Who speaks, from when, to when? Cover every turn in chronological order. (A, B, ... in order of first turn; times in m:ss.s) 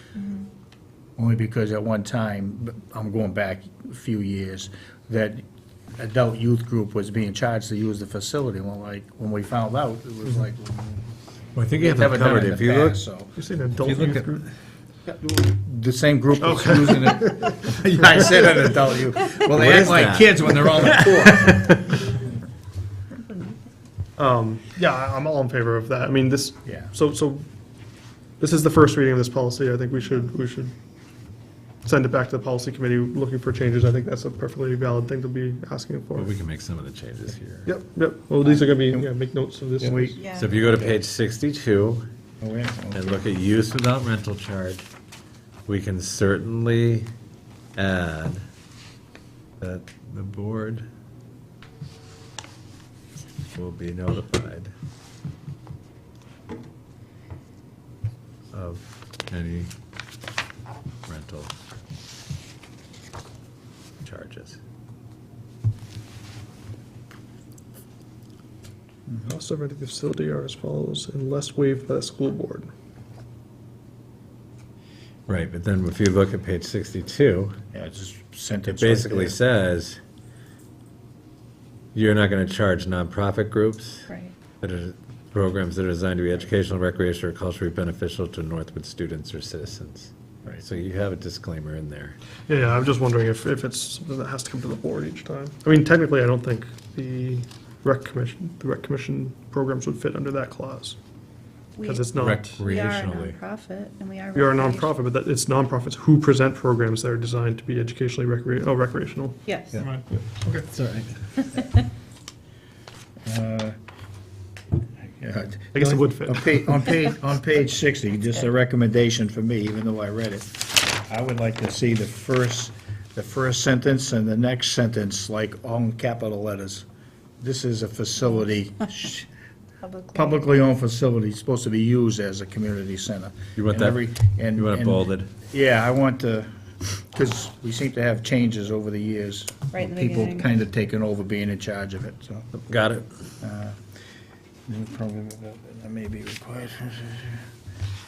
0:01.2-0:05.4 A
0:06.0-0:11.1 A
0:11.5-0:13.0 B
0:11.8-0:13.3 A
0:13.4-0:14.4 C
0:13.8-0:14.4 B
0:15.1-0:21.6 A
0:16.4-0:17.5 C
0:19.4-0:21.7 B
0:23.2-0:23.5 D
0:24.2-0:27.5 C
0:26.6-0:26.9 A
0:28.4-0:30.7 C
0:31.8-0:36.3 C
0:36.1-0:37.7 B
0:37.6-0:40.2 C
0:38.4-0:39.1 A
0:39.8-0:41.0 A
0:40.2-0:40.6 D
0:40.3-0:42.1 B
0:42.4-0:43.2 A
0:42.9-0:44.8 B
0:45.7-0:47.1 B
0:47.8-0:48.4 B
0:49.6-0:50.8 B
0:53.5-0:54.7 B
0:58.5-0:59.7 B
1:01.1-1:01.5 B
1:04.0-1:04.6 B
1:09.2-1:12.7 C
1:15.3-1:17.6 B
1:17.7-1:19.4 A
1:18.7-1:20.0 B
1:21.9-1:24.1 B
1:24.1-1:24.3 D
1:24.6-1:32.2 B
1:32.5-1:41.0 C
1:41.8-1:42.1 D
1:41.8-1:42.6 C
1:42.1-1:43.4 B
1:42.6-1:44.9 D
1:44.3-1:50.6 C
1:49.4-1:49.8 D
1:50.6-1:51.3 B
1:53.2-1:53.8 A
1:55.2-2:06.8 A
1:55.7-1:56.9 C
2:07.4-2:09.3 A
2:09.8-2:10.4 D
2:10.1-2:22.5 A
2:13.6-2:15.3 B
2:19.7-2:20.5 D
2:22.6-2:23.1 B
2:23.4-2:23.8 A
2:24.7-2:27.4 A